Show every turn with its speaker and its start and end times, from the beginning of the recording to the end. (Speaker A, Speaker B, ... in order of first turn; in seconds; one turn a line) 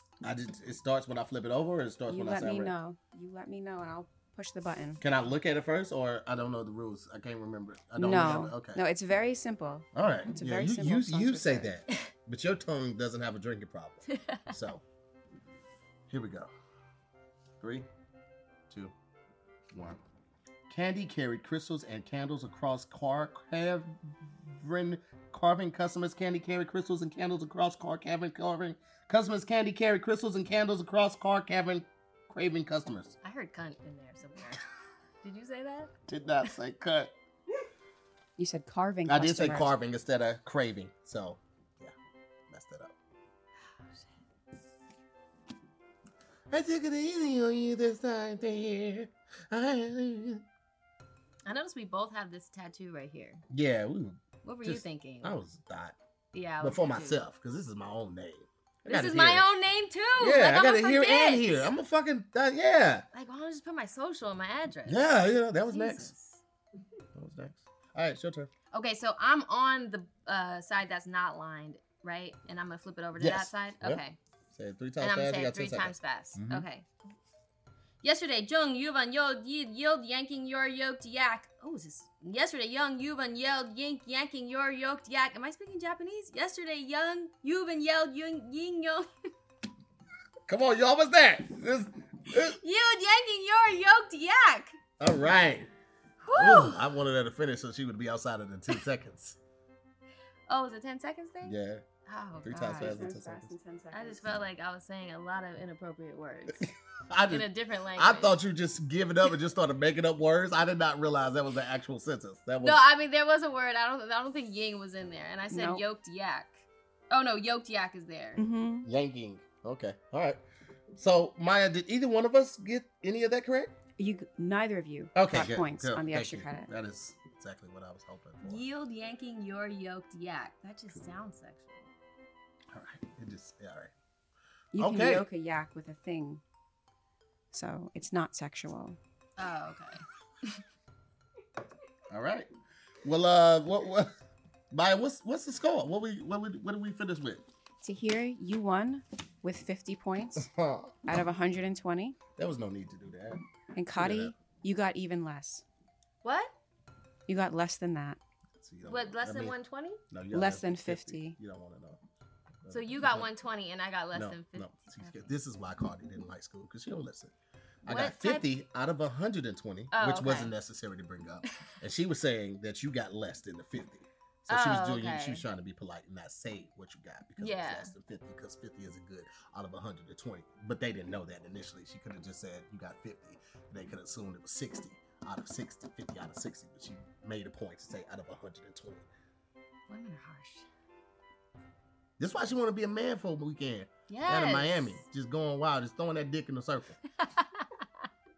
Speaker A: 0.2-2.8
Speaker B: 2.1-5.0
Speaker A: 5.0-8.8
Speaker B: 8.0-11.7
Speaker A: 9.9-14.8
Speaker C: 14.1-14.5
Speaker A: 16.1-16.5
Speaker A: 17.6-17.9
Speaker A: 19.7-20.0
Speaker A: 20.7-33.1
Speaker C: 33.2-34.6
Speaker C: 35.2-35.9
Speaker A: 36.1-37.1
Speaker B: 38.4-39.7
Speaker A: 39.1-41.9
Speaker A: 42.5-42.9
Speaker A: 46.5-50.4
Speaker C: 51.5-53.4
Speaker A: 53.5-56.0
Speaker C: 54.4-55.4
Speaker C: 56.3-57.2
Speaker A: 56.6-59.4
Speaker C: 58.9-61.7
Speaker A: 60.2-63.0
Speaker C: 63.1-66.4
Speaker A: 64.9-66.1
Speaker A: 67.2-68.5
Speaker C: 68.7-74.2
Speaker A: 73.2-76.7
Speaker C: 75.0-76.9
Speaker C: 78.0-89.1
Speaker A: 90.5-92.6
Speaker C: 92.6-94.8
Speaker A: 95.0-95.7
Speaker C: 96.2-96.8
Speaker A: 96.3-99.4
Speaker C: 100.5-101.5
Speaker A: 101.4-101.8
Speaker C: 102.1-103.0
Speaker A: 102.4-103.5
Speaker B: 102.6-104.4
Speaker C: 103.9-106.7
Speaker A: 106.7-112.8
Speaker C: 107.3-108.3
Speaker C: 112.6-118.4
Speaker B: 115.5-115.8
Speaker B: 118.4-118.9
Speaker A: 118.8-120.4
Speaker A: 121.0-123.7
Speaker B: 124.0-126.7
Speaker A: 125.2-128.6
Speaker C: 128.4-131.9
Speaker A: 132.7-133.9
Speaker B: 134.7-136.4
Speaker A: 134.8-135.3
Speaker B: 137.5-139.0
Speaker C: 139.4-140.6
Speaker A: 142.1-142.5
Speaker A: 143.0-144.1
Speaker A: 144.7-147.4
Speaker B: 147.8-150.5
Speaker A: 150.4-150.9
Speaker B: 151.1-152.2
Speaker A: 152.4-153.4
Speaker B: 153.8-155.7
Speaker A: 154.0-154.3
Speaker C: 156.2-156.5
Speaker B: 157.3-158.2
Speaker A: 158.6-159.6
Speaker C: 158.9-160.0
Speaker A: 160.1-162.0
Speaker B: 160.3-161.4
Speaker A: 162.6-163.3
Speaker C: 162.7-165.3
Speaker A: 164.1-167.3
Speaker C: 167.8-168.5
Speaker A: 167.9-189.1
Speaker C: 169.9-170.5
Speaker C: 174.5-175.4
Speaker C: 177.4-177.9
Speaker C: 189.9-190.7
Speaker A: 192.2-197.0
Speaker C: 194.1-195.0
Speaker C: 197.2-197.7